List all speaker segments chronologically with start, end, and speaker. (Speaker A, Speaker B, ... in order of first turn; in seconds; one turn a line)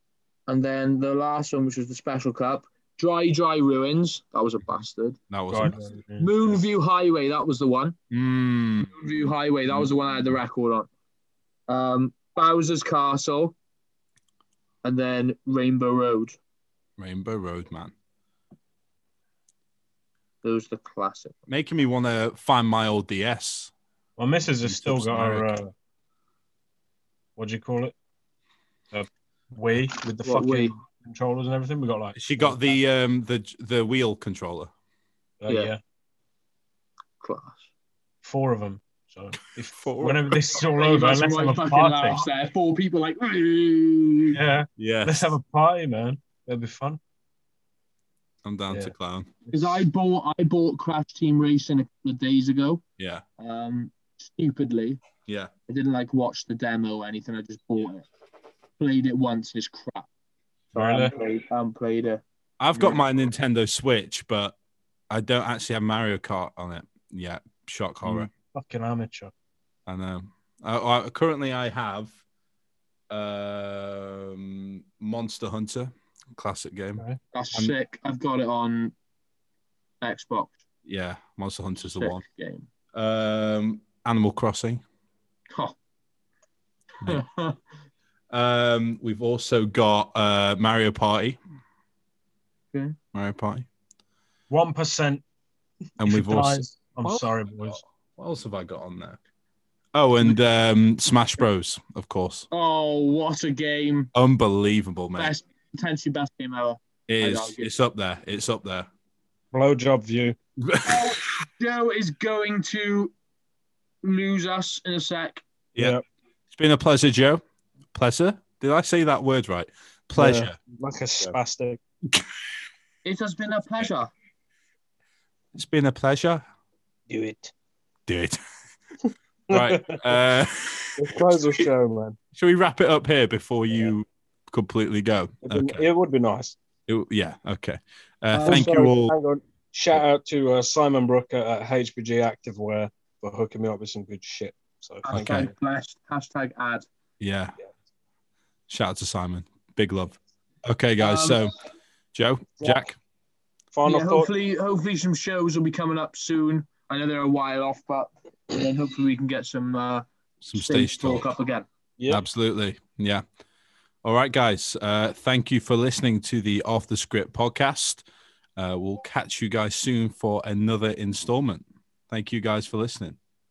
Speaker A: 0.5-5.2
Speaker B: 5.3-5.8
Speaker C: 5.5-6.6
Speaker A: 6.2-8.0
Speaker B: 8.1-8.9
Speaker A: 8.9-10.9
Speaker A: 11.7-13.6
Speaker A: 14.8-16.4
Speaker B: 17.0-17.9
Speaker A: 20.4-21.4
Speaker B: 21.5-23.7
Speaker C: 24.2-25.7
Speaker B: 24.6-25.6
Speaker C: 27.4-27.9
Speaker C: 28.9-32.8
Speaker A: 30.2-30.8
Speaker B: 32.2-34.7
Speaker C: 35.4-35.8
Speaker A: 37.2-37.6
Speaker C: 38.2-42.3
Speaker B: 39.7-40.3
Speaker A: 40.6-44.4
Speaker C: 44.3-47.0
Speaker B: 44.8-45.4
Speaker B: 48.4-49.4
Speaker A: 49.5-52.8
Speaker B: 53.0-53.2
Speaker A: 53.4-55.0
Speaker A: 55.7-58.1
Speaker A: 58.8-60.1
Speaker A: 60.7-62.2
Speaker C: 60.8-61.1
Speaker B: 62.6-64.5
Speaker B: 65.1-68.3
Speaker C: 68.0-69.3
Speaker B: 69.9-72.1
Speaker B: 73.1-77.8
Speaker A: 77.3-78.9
Speaker A: 80.0-80.5
Speaker B: 80.9-82.2
Speaker A: 81.9-82.7
Speaker B: 82.9-84.8
Speaker A: 87.0-87.6
Speaker B: 88.3-91.4
Speaker B: 93.1-93.7
Speaker C: 94.5-95.2
Speaker B: 96.0-99.2
Speaker C: 96.1-97.8
Speaker B: 99.9-102.5
Speaker A: 102.5-104.1
Speaker B: 104.1-105.3
Speaker A: 105.2-107.7
Speaker B: 107.1-108.9
Speaker C: 109.5-110.4
Speaker B: 110.6-111.2
Speaker A: 110.8-113.1
Speaker A: 114.0-115.4
Speaker C: 115.8-116.0
Speaker B: 116.5-117.4
Speaker B: 117.9-120.6
Speaker C: 120.2-121.8
Speaker A: 123.0-124.1
Speaker B: 125.5-126.4
Speaker C: 127.1-127.5
Speaker B: 128.1-128.4
Speaker C: 129.5-130.2
Speaker B: 129.5-131.0
Speaker C: 131.0-132.2
Speaker B: 132.3-135.8
Speaker C: 135.4-136.6
Speaker B: 136.9-139.2
Speaker A: 138.3-138.7
Speaker C: 138.4-145.5
Speaker A: 145.1-146.9
Speaker B: 145.1-145.5
Speaker B: 147.2-147.6
Speaker B: 148.7-151.6
Speaker A: 151.0-151.4
Speaker B: 152.1-153.0
Speaker C: 153.7-154.3
Speaker A: 153.8-161.7
Speaker B: 160.4-161.2
Speaker C: 162.0-162.2
Speaker B: 162.1-163.2
Speaker B: 164.0-168.1
Speaker B: 168.6-173.2